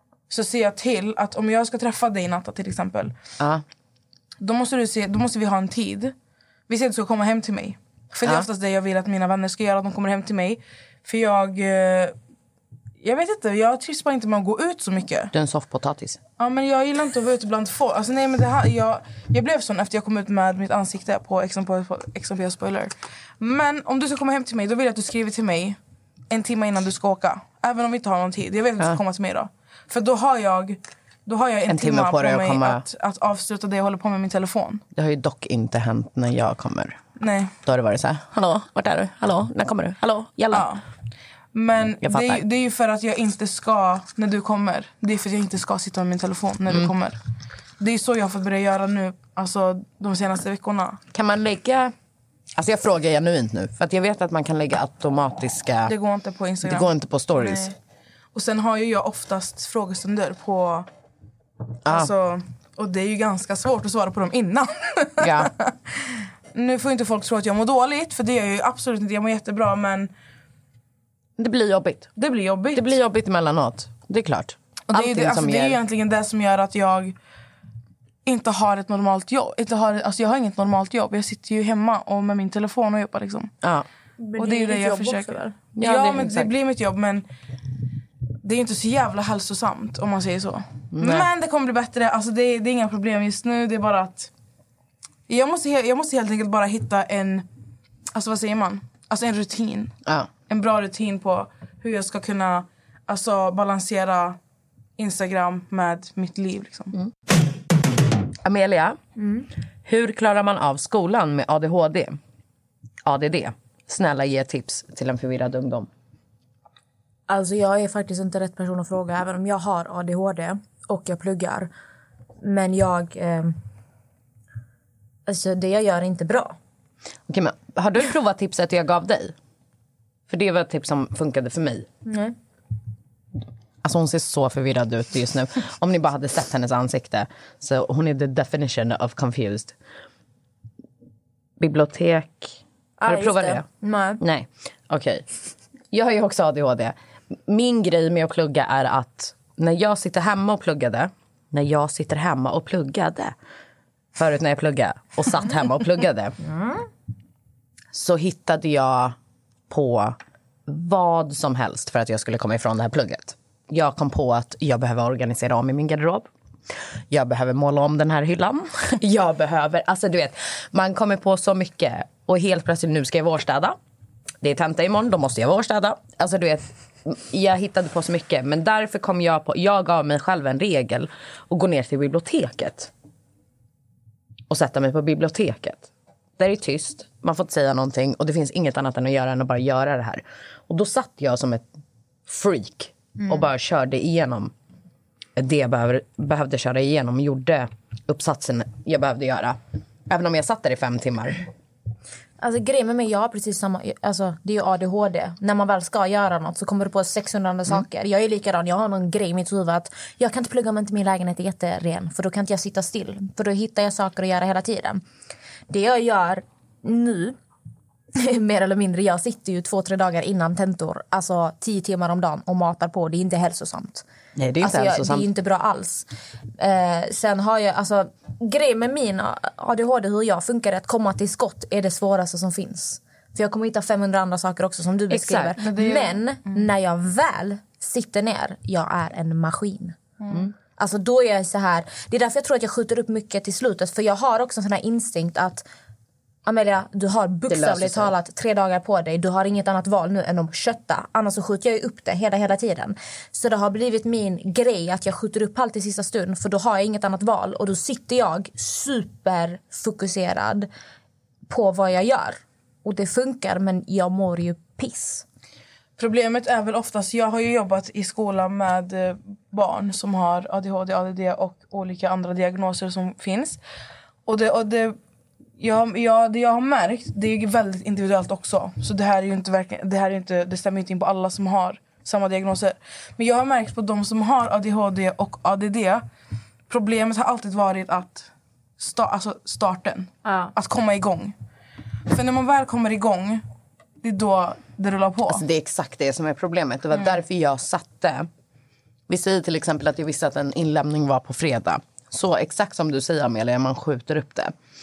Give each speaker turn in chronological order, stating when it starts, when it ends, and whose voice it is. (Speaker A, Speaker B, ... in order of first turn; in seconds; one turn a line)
Speaker A: 0.3-3.2
Speaker A: 4.4-6.1
Speaker A: 6.7-12.2
Speaker A: 13.0-15.3
Speaker B: 15.3-16.2
Speaker A: 16.4-25.8
Speaker A: 26.3-34.8
Speaker B: 31.7-32.8
Speaker B: 35.0-37.0
Speaker A: 37.2-37.5
Speaker B: 37.6-40.7
Speaker A: 40.5-40.8
Speaker A: 41.5-47.2
Speaker B: 42.0-42.4
Speaker A: 47.8-51.0
Speaker B: 51.1-51.9
Speaker B: 52.6-55.9
Speaker A: 55.9-57.8
Speaker B: 56.6-57.7
Speaker A: 58.3-60.9
Speaker A: 61.9-70.1
Speaker B: 65.2-65.5
Speaker B: 71.4-72.1
Speaker A: 72.2-72.9
Speaker B: 72.7-75.8
Speaker A: 74.9-77.2
Speaker A: 78.2-83.5
Speaker C: 84.2-85.6
Speaker A: 84.4-87.3
Speaker B: 85.8-86.5
Speaker A: 88.4-94.3
Speaker B: 90.9-91.3
Speaker A: 95.3-97.5
Speaker A: 98.1-100.0
Speaker A: 100.5-104.4
Speaker A: 105.0-106.9
Speaker B: 108.4-109.0
Speaker C: 109.2-109.5
Speaker B: 109.8-112.2
Speaker B: 113.0-115.9
Speaker C: 117.3-121.7
Speaker C: 122.4-123.5
Speaker C: 125.3-126.6
Speaker B: 127.3-129.4
Speaker B: 130.3-131.9
Speaker C: 132.1-132.3
Speaker B: 133.8-139.8
Speaker B: 141.6-143.7
Speaker C: 143.0-144.2
Speaker B: 144.2-145.3
Speaker B: 145.9-153.3
Speaker B: 154.2-156.4
Speaker C: 156.5-156.8
Speaker B: 157.9-159.2
Speaker B: 159.7-166.3
Speaker B: 167.1-173.8
Speaker B: 174.4-182.9
Speaker B: 184.5-191.7
Speaker B: 192.3-194.5
Speaker B: 195.4-201.4
Speaker C: 202.4-215.0
Speaker C: 215.7-217.4
Speaker C: 218.2-224.1
Speaker B: 224.4-225.3
Speaker C: 224.6-226.1
Speaker C: 226.6-240.0
Speaker B: 235.1-235.6
Speaker A: 235.6-236.2
Speaker C: 240.8-245.7
Speaker C: 246.4-260.7
Speaker B: 247.5-248.1
Speaker C: 261.5-265.3
Speaker A: 266.0-273.6
Speaker A: 274.3-275.0
Speaker A: 275.6-286.1
Speaker A: 286.7-291.3
Speaker C: 290.3-290.5
Speaker A: 292.1-293.4
Speaker A: 294.0-295.4
Speaker B: 295.3-298.3
Speaker B: 299.1-304.5